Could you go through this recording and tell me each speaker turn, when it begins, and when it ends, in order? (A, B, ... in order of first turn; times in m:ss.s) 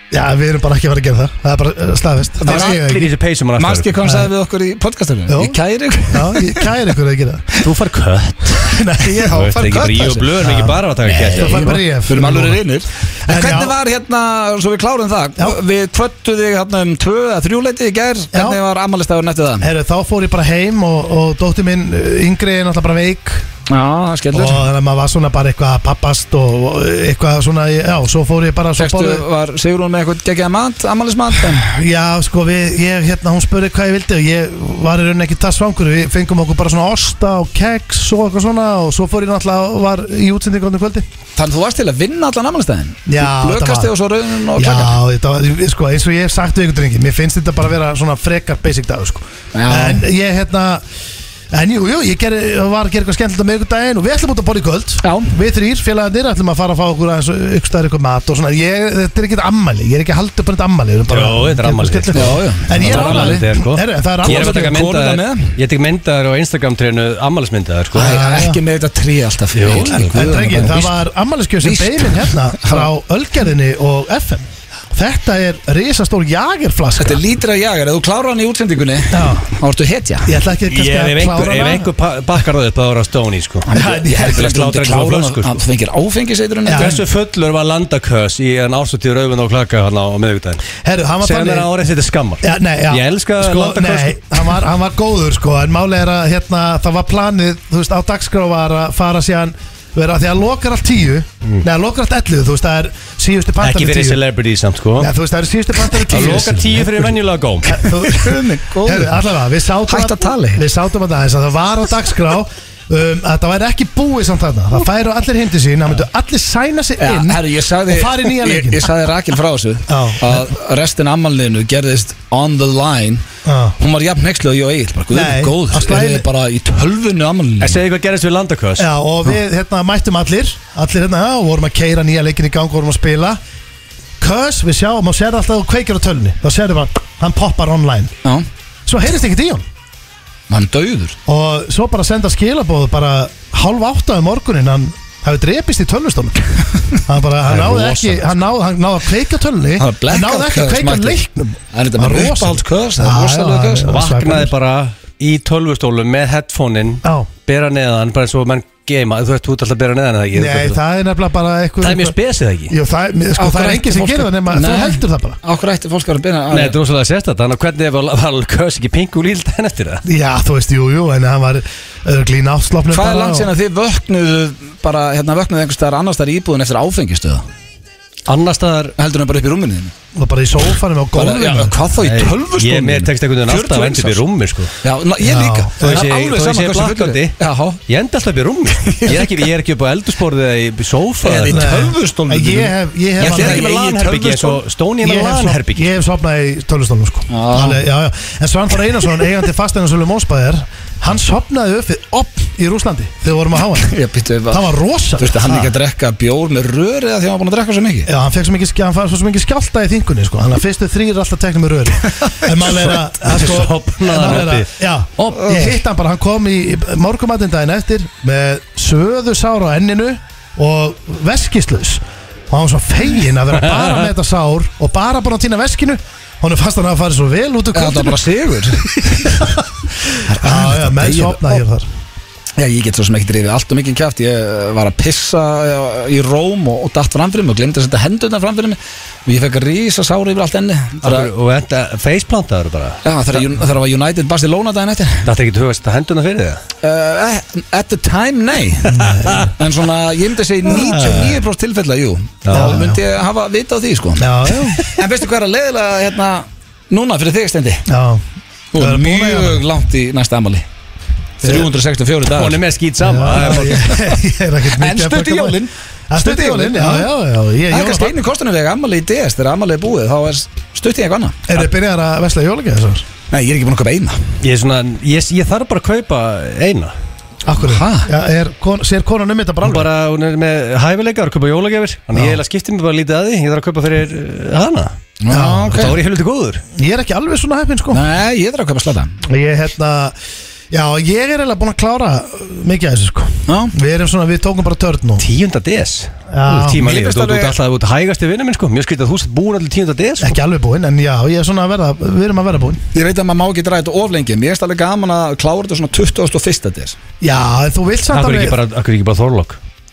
0:00.1-0:03.1 A
0:02.4-0:02.8 B
0:02.5-0:04.2 C
0:03.6-0:06.7 B
0:05.3-0:05.6 A
0:06.1-0:07.6 A
0:07.6-0:08.8 C
0:08.5-0:09.3 A
0:09.0-0:10.4 B
0:09.3-0:11.8 C
0:10.4-0:10.8 A
0:11.0-0:19.7 B
0:11.3-0:12.6 A
0:13.2-0:13.7 A
0:18.3-0:18.6 A
0:19.6-0:23.5 A
0:23.7-0:24.6 B
0:24.3-0:29.2 A
0:28.8-0:31.6 B
0:31.4-0:41.1 A
0:41.4-0:45.0 B
0:43.1-0:43.9 A
0:44.5-0:50.8 A
0:49.5-0:50.0 B
0:51.5-1:04.8 A
0:55.0-0:55.4 B
1:01.1-1:08.2 C
1:02.1-1:03.5 B
1:04.2-1:05.6 B
1:08.0-1:08.6 A
1:08.0-1:11.0 B
1:09.5-1:10.3 C
1:09.9-1:17.2 A
1:11.6-1:12.9 B
1:17.0-1:20.4 B
1:19.1-1:19.5 A
1:20.2-1:21.9 A
1:20.7-1:25.6 C
1:23.7-1:27.0 B
1:23.8-1:24.1 A
1:26.7-1:27.0 A
1:26.8-1:30.6 C
1:30.8-1:31.7 A
1:31.2-1:34.2 C
1:32.4-1:44.2 A
1:43.6-1:45.1 C
1:45.0-1:58.9 A
1:46.0-1:48.0 C
1:48.1-1:49.2 B
1:49.9-1:50.6 B
1:57.0-2:03.2 B
1:59.9-2:00.5 A
2:03.4-2:03.8 A
2:03.8-2:07.8 B
2:05.1-2:06.3 A
2:07.6-2:08.9 C
2:08.8-2:13.4 A
2:14.2-2:18.1 A
2:18.9-2:19.6 A
2:20.5-2:21.2 B
2:21.3-2:34.5 A
2:27.5-2:28.2 C
2:29.8-2:31.2 B
2:31.7-2:33.9 B
2:33.9-2:40.8 C
2:37.0-2:37.3 A
2:40.3-2:42.2 A
2:41.8-2:42.8 C
2:42.7-2:45.4 A
2:43.4-2:46.8 B
2:46.5-2:50.0 C
2:50.1-2:53.5 A
2:52.9-2:57.4 B
2:58.3-2:58.9 C
2:59.0-2:59.9 B
3:00.2-3:01.8 A
3:01.1-3:04.2 B
3:02.0-3:04.7 C
3:04.8-3:07.8 B
3:05.2-3:05.8 A
3:05.8-3:11.7 C
3:08.8-3:09.4 B
3:11.2-3:14.6 B
3:11.5-3:13.7 A
3:13.2-3:15.9 C
3:15.0-3:23.9 A
3:17.3-3:17.8 B
3:23.8-3:28.1 B
3:24.5-3:25.7 A
3:28.1-3:48.2 A
3:32.1-3:32.9 B
3:33.2-3:34.7 C
3:35.2-3:35.8 B
3:47.7-3:49.6 B
3:50.2-3:51.6 B
3:50.4-3:51.9 A
3:52.6-4:01.3 B
4:01.0-4:03.0 C
4:03.0-4:05.3 B
4:05.2-4:06.6 C
4:06.8-4:09.0 B
4:08.8-4:09.5 A
4:09.0-4:09.5 C
4:09.5-4:17.9 B
4:10.6-4:11.4 A
4:12.5-4:12.8 C
4:12.5-4:13.0 A
4:14.2-4:14.9 A
4:17.9-4:18.2 A
4:18.7-4:20.6 B
4:18.8-4:19.7 A
4:21.4-4:22.6 B
4:22.3-4:23.8 C
4:23.0-4:28.2 A
4:23.3-4:24.1 B
4:24.8-4:27.1 B
4:27.7-4:31.4 B
4:31.5-4:33.1 A
4:33.3-4:34.2 B
4:34.4-4:36.9 C
4:37.5-4:39.9 A
4:37.6-4:38.1 B
4:39.6-4:44.9 C
4:42.1-4:42.4 A
4:45.2-4:46.0 B
4:45.3-4:45.9 A
4:45.7-4:46.6 C
4:46.8-4:48.0 A
4:47.9-4:49.2 B
4:49.2-4:50.2 A
4:50.7-4:55.2 A
4:53.5-4:53.7 B
4:55.2-5:00.4 C
4:56.3-4:56.9 A
4:56.8-4:57.6 B
5:00.2-5:02.8 A
5:02.9-5:07.0 B
5:07.2-5:08.6 A
5:08.1-5:09.6 C